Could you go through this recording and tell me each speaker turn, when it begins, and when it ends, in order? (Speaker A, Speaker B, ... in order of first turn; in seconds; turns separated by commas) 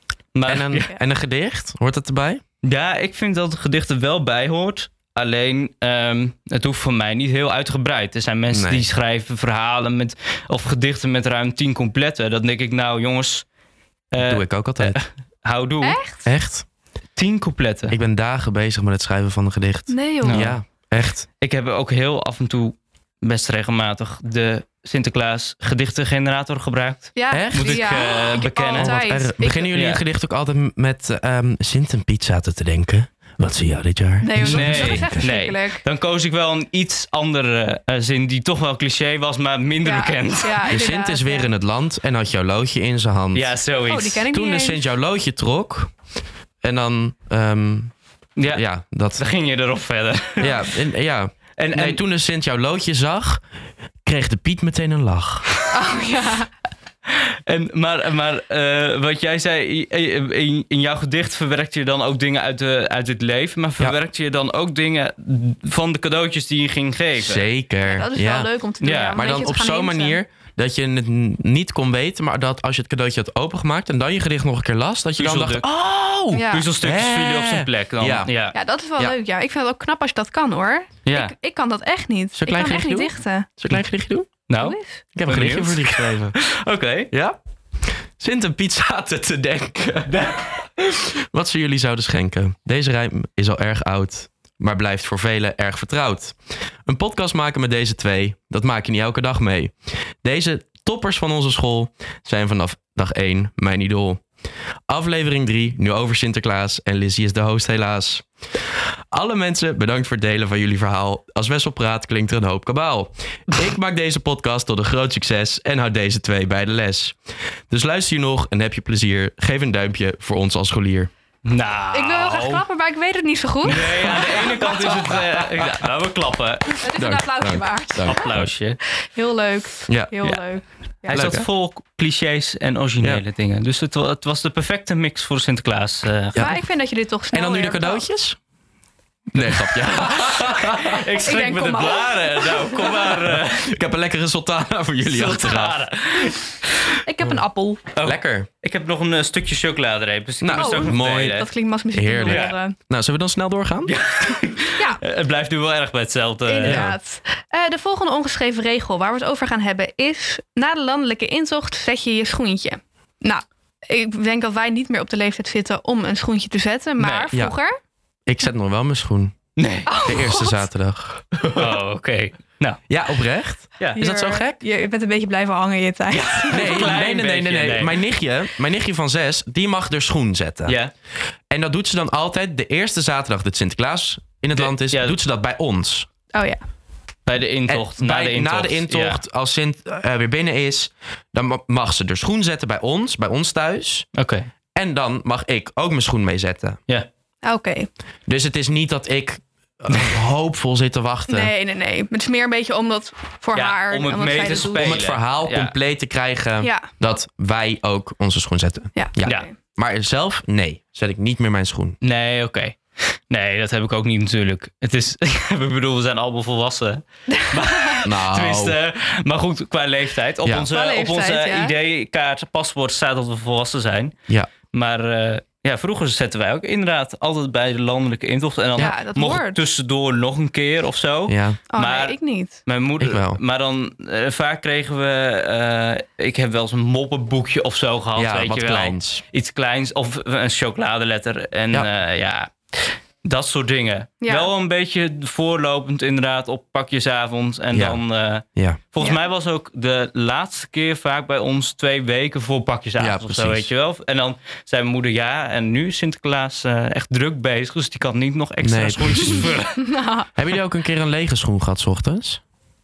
Speaker A: 0.3-0.9, Speaker B: 0.5-2.4, Speaker A: 2.6-13.4, Speaker B: 8.5-8.8, Speaker A: 14.1-16.0, Speaker B: 14.2-15.0, Speaker C: 15.8-16.3, Speaker B: 16.2-16.6, Speaker A: 17.1-17.9, Speaker B: 17.9-21.2, Speaker C: 19.9-20.5, Speaker A: 20.2-20.5, Speaker A: 21.4-28.9, Speaker C: 27.1-29.7, Speaker B: 27.3-28.2, Speaker B: 28.7-35.3, Speaker A: 29.7-30.0, Speaker C: 34.2-35.8, Speaker A: 34.4-40.7, Speaker C: 39.8-41.5, Speaker B: 40.7-43.5, Speaker A: 43.3-44.3, Speaker C: 43.9-44.8, Speaker B: 44.3-45.9, Speaker B: 46.6-47.9, Speaker A: 48.4-48.6, Speaker B: 48.5-49.2, Speaker A: 49.2-50.6, Speaker B: 50.4-53.4, Speaker A: 51.6-52.0, Speaker B: 54.0-55.5, Speaker C: 55.7-56.5, Speaker A: 57.1-67.5, Speaker B: 67.2-68.5, Speaker C: 67.8-70.2, Speaker A: 68.8-69.2, Speaker B: 69.1-78.3, Speaker A: 75.2-75.6, Speaker C: 76.3-76.7, Speaker A: 76.5-78.5, Speaker C: 78.5-83.5, Speaker A: 81.0-81.3, Speaker B: 82.3-84.3, Speaker A: 84.5-87.1, Speaker C: 84.6-85.0, Speaker B: 85.1-86.4, Speaker B: 87.1-104.2, Speaker A: 90.1-90.5, Speaker B: 104.9-121.1, Speaker A: 121.4-122.6, Speaker C: 121.9-125.0, Speaker A: 123.6-126.8, Speaker B: 123.8-125.9, Speaker C: 126.8-128.3, Speaker B: 126.9-128.5, Speaker A: 128.1-128.8, Speaker C: 129.0-131.4, Speaker B: 129.9-130.1, Speaker A: 131.1-136.4, Speaker B: 131.1-131.5, Speaker C: 136.3-138.0, Speaker B: 137.3-138.4, Speaker B: 139.3-141.0, Speaker A: 139.3-143.8, Speaker C: 140.9-143.1, Speaker B: 143.1-145.8, Speaker A: 145.0-146.8, Speaker C: 147.0-147.8, Speaker A: 147.9-151.5, Speaker B: 148.0-148.5, Speaker B: 150.4-151.4, Speaker C: 150.5-152.8, Speaker B: 151.9-153.9, Speaker A: 152.2-152.5, Speaker A: 153.9-156.9, Speaker C: 156.4-167.7, Speaker B: 156.6-157.0, Speaker A: 167.0-167.3, Speaker B: 168.2-169.4, Speaker A: 169.6-169.9, Speaker C: 169.8-170.6, Speaker B: 170.0-171.8, Speaker A: 171.5-172.8, Speaker B: 172.9-174.6, Speaker C: 173.9-176.9, Speaker A: 176.1-178.0, Speaker B: 176.5-180.8, Speaker B: 181.5-186.1, Speaker A: 184.5-185.2, Speaker C: 186.3-186.6, Speaker A: 187.2-189.2, Speaker B: 187.7-194.1, Speaker A: 194.2-194.5, Speaker B: 194.7-196.8, Speaker C: 197.4-197.9, Speaker B: 198.3-201.5, Speaker C: 201.3-205.0, Speaker A: 203.5-205.7, Speaker B: 204.4-212.0, Speaker C: 206.6-206.9, Speaker C: 208.9-209.5, Speaker A: 212.0-224.1, Speaker C: 217.3-217.9, Speaker B: 218.0-218.8, Speaker B: 220.4-220.7, Speaker C: 220.7-221.7, Speaker A: 224.7-259.8, Speaker C: 228.8-229.6, Speaker B: 231.3-231.6, Speaker C: 231.7-232.6, Speaker B: 233.0-233.4, Speaker B: 238.2-239.2, Speaker C: 244.2-244.5, Speaker B: 247.7-248.0, Speaker B: 248.5-248.8, Speaker B: 253.0-253.7, Speaker B: 258.6-259.5, Speaker C: 259.8-260.3, Speaker B: 260.4-262.4